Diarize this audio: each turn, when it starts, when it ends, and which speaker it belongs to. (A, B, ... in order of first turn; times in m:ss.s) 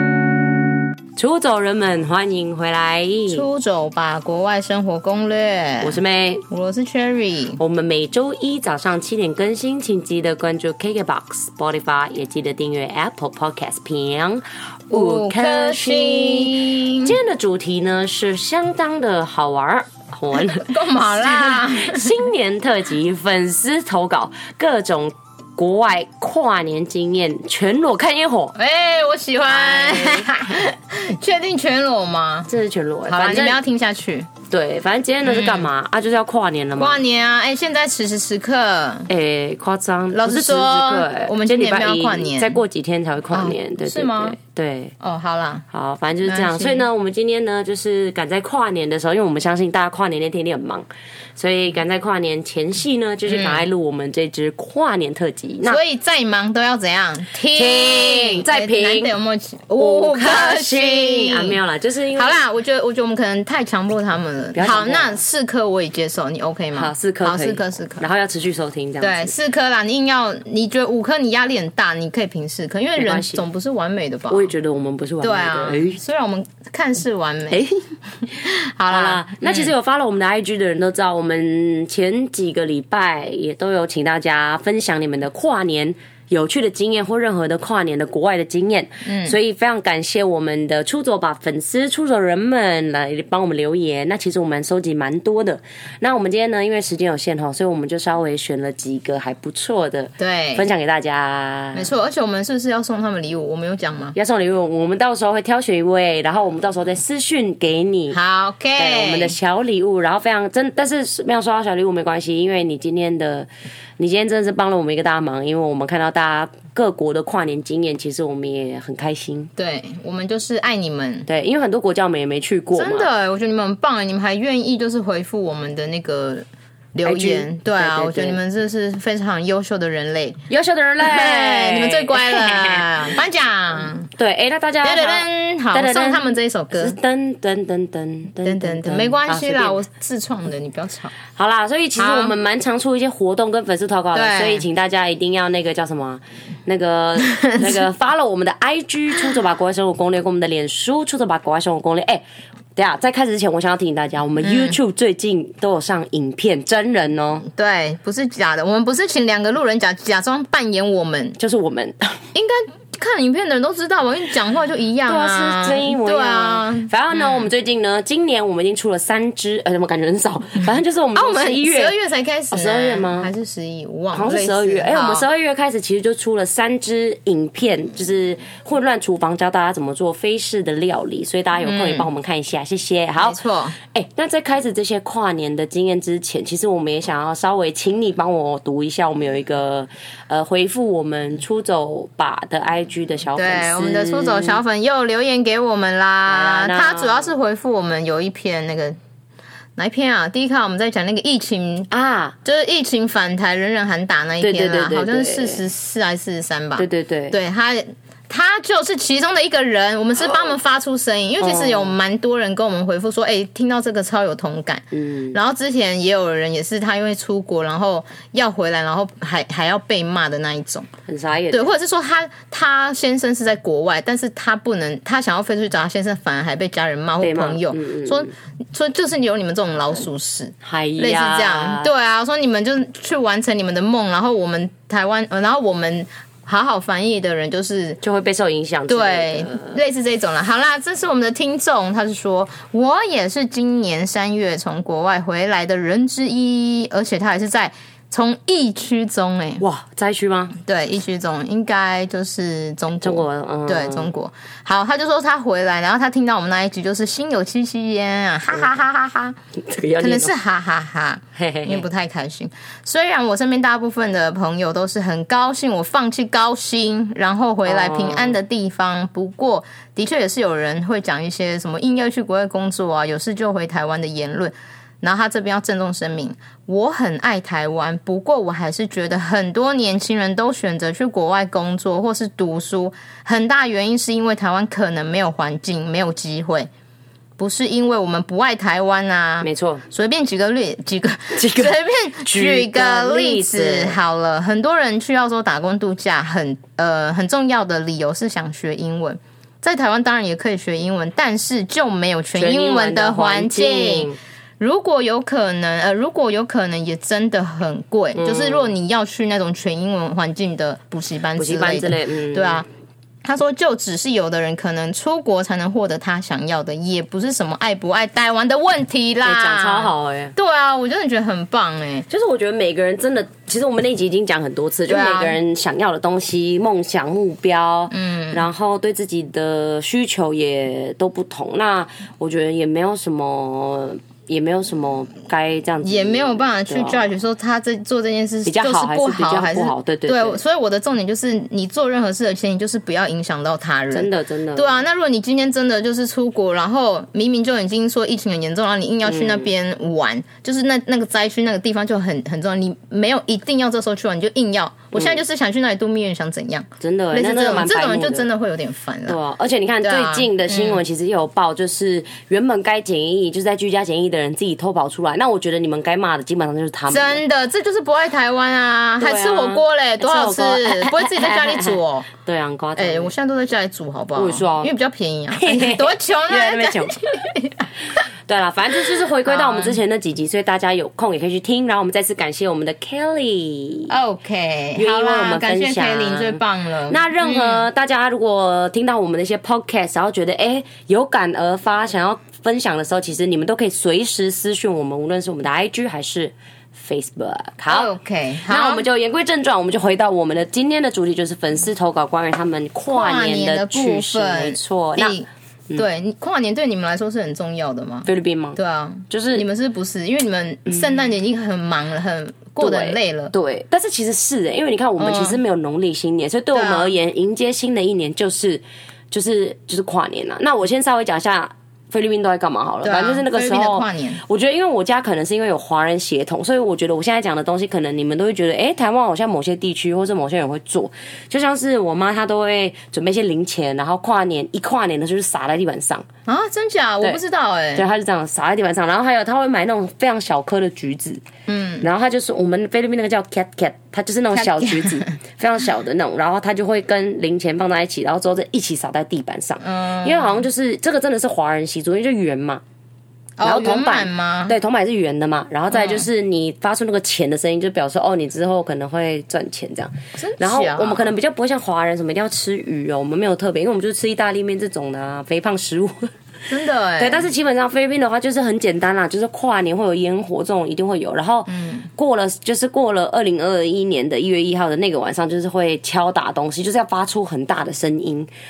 0:01.2-0:03.4 A
0:03.3-0:06.0 B
0:05.8-0:06.4 A
0:06.5-0:07.6 B
0:07.6-0:28.5 A
0:14.9-0:17.2 B
0:20.4-0:22.2 B
0:28.5-0:32.5 B
0:29.4-0:30.3 A
0:32.5-0:33.6 A
0:33.0-0:34.3 B
0:34.5-0:37.0 A
0:35.2-0:35.7 B
0:36.8-0:39.1 B
0:39.1-0:44.9 A
0:40.1-0:42.6 B
0:43.3-0:44.4 B
0:45.0-0:45.6 B
0:45.7-0:55.8 A
0:46.2-0:46.8 B
0:53.3-0:53.6 B
0:55.6-1:01.6 B
0:57.5-0:59.1 A
0:59.8-1:02.4 A
1:02.1-1:08.1 B
1:04.5-1:05.2 A
1:06.7-1:09.3 A
1:09.0-1:14.5 B
1:13.0-1:13.4 A
1:14.3-1:16.0 A
1:15.2-1:17.6 B
1:17.5-1:17.8 A
1:18.2-1:19.7 B
1:18.9-1:41.9 A
1:29.0-1:29.4 B
1:40.2-1:40.6 B
1:41.7-1:44.2 B
1:44.1-1:48.2 A
1:48.1-1:49.4 B
1:48.8-1:59.5 A
1:59.6-2:01.3 B
2:01.2-2:03.1 A
2:02.7-2:10.4 B
2:07.0-2:08.4 A
2:10.5-2:13.0 A
2:11.0-2:14.1 B
2:14.1-2:16.2 A
2:14.8-2:17.0 B
2:16.8-2:19.8 A
2:18.4-2:21.1 B
2:21.3-2:32.2 A
2:22.0-2:22.3 B
2:24.1-2:24.6 B
2:27.2-2:27.8 B
2:32.8-2:37.5 A
2:34.4-2:34.8 B
2:37.5-2:41.4 B
2:41.4-2:42.2 A
2:42.3-2:47.5 B
2:45.0-2:51.9 A
2:51.1-2:55.3 B
2:52.5-2:53.3 A
2:54.1-3:14.6 A
3:01.6-3:02.1 B
3:03.2-3:03.8 B
3:13.3-3:19.0 B
3:16.3-3:17.3 A
3:19.8-3:21.9 B
3:21.9-3:22.3 A
3:22.4-3:40.9 B
3:24.4-3:25.6 A
3:26.8-3:27.4 A
3:31.4-3:31.9 A
3:34.9-3:35.4 A
3:41.1-3:41.7 A
3:41.5-3:58.0 B
3:47.2-3:48.3 A
3:50.6-3:51.9 A
3:58.0-3:59.8 A
3:58.9-4:09.6 B
4:09.6-4:10.6 A
4:10.6-4:19.4 B
4:13.0-4:14.1 A
4:19.6-4:20.3 A
4:20.0-4:46.7 B
4:21.3-4:21.8 A
4:27.6-4:28.4 A
4:47.4-5:12.7 B
4:49.4-4:49.8 A
4:51.3-4:54.0 A
5:02.3-5:04.2 A
5:08.1-5:08.7 A
5:11.4-5:12.6 A
5:13.2-5:22.0 B
5:19.2-5:20.3 A
5:22.1-5:37.0 A
5:24.9-5:25.4 B
5:27.9-5:28.5 B
5:35.8-5:59.2 B
5:38.4-5:40.4 A
5:43.9-5:44.8 A
5:49.0-5:49.5 A
5:54.9-5:55.2 A
5:56.8-5:58.2 A
5:59.1-6:07.2 A
5:59.8-6:00.8 B
6:06.9-6:12.1 B
6:09.0-6:13.1 A
6:12.8-6:17.6 B
6:14.2-6:14.7 A
6:15.3-6:17.0 A
6:18.3-6:23.9 A
6:18.8-6:19.8 B
6:23.9-6:27.6 B
6:24.8-6:37.9 A
6:37.7-6:38.8 B
6:38.5-6:45.2 A
6:42.9-6:53.3 B
6:48.0-6:48.6 A
6:49.1-6:49.4 A
6:52.6-7:16.0 A
6:55.0-6:55.4 B
6:56.5-6:56.9 B
7:02.8-7:04.2 B
7:16.2-7:17.8 B
7:17.7-7:21.2 A
7:21.5-7:21.8 B
7:21.8-7:32.6 A
7:24.3-7:25.1 B
7:29.6-7:30.4 B
7:33.4-7:34.5 B
7:33.4-7:46.1 A
7:35.7-7:36.0 B
7:40.2-7:41.0 B
7:46.5-7:47.3 B
7:47.0-7:58.3 A
7:51.5-7:51.8 B